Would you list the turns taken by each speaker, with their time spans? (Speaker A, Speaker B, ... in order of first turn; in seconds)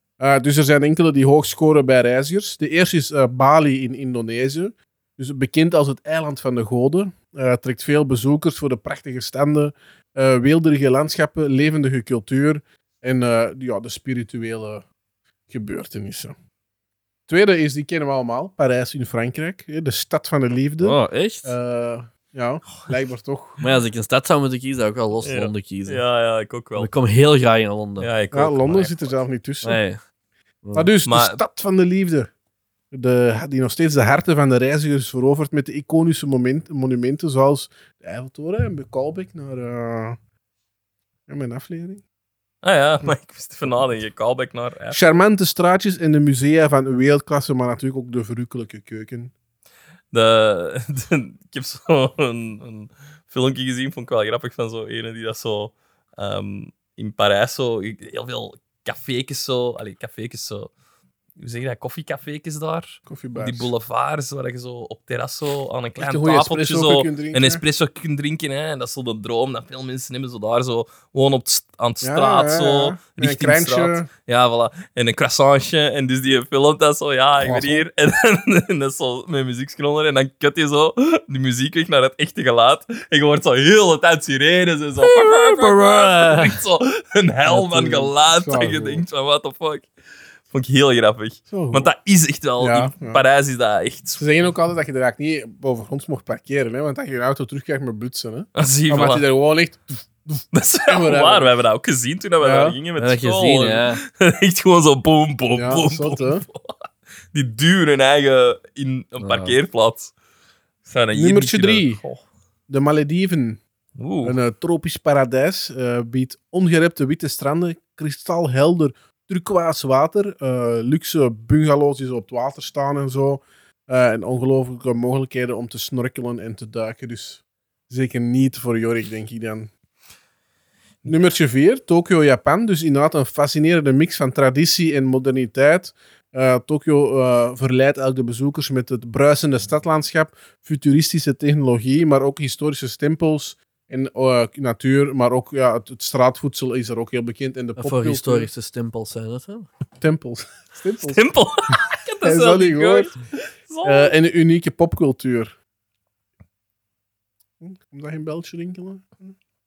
Speaker A: 0.2-14.9, 15.5-16.4, 17.3-23.6, 28.3-29.8, 30.8-32.3, 32.9-40.2, 41.3-42.0, 44.9-49.3, 63.1-63.7, 66.0-67.6, 72.0-74.1, 77.4-77.9, 87.5-89.0, 91.5-91.9, 92.6-93.2, 94.2-101.5, 102.4-102.8, 105.5-106.5, 111.1-112.0, 112.7-113.6, 114.2-129.7, 131.1-148.5, 150.0-151.2, 152.2-153.1, 153.8-155.5, 157.6-159.3
Speaker B: 20.8-21.5, 23.6-26.0, 26.8-28.1, 29.6-30.0, 30.6-30.9, 85.0-86.6, 103.0-104.0, 109.2-109.6, 147.8-149.7
Speaker C: 25.2-26.9, 28.0-29.2, 31.1-31.4, 42.6-45.0, 50.1-60.7, 61.4-89.9, 90.5-94.2, 98.6-99.2, 100.5-110.1, 110.9-112.2, 114.0-114.4, 151.1-154.1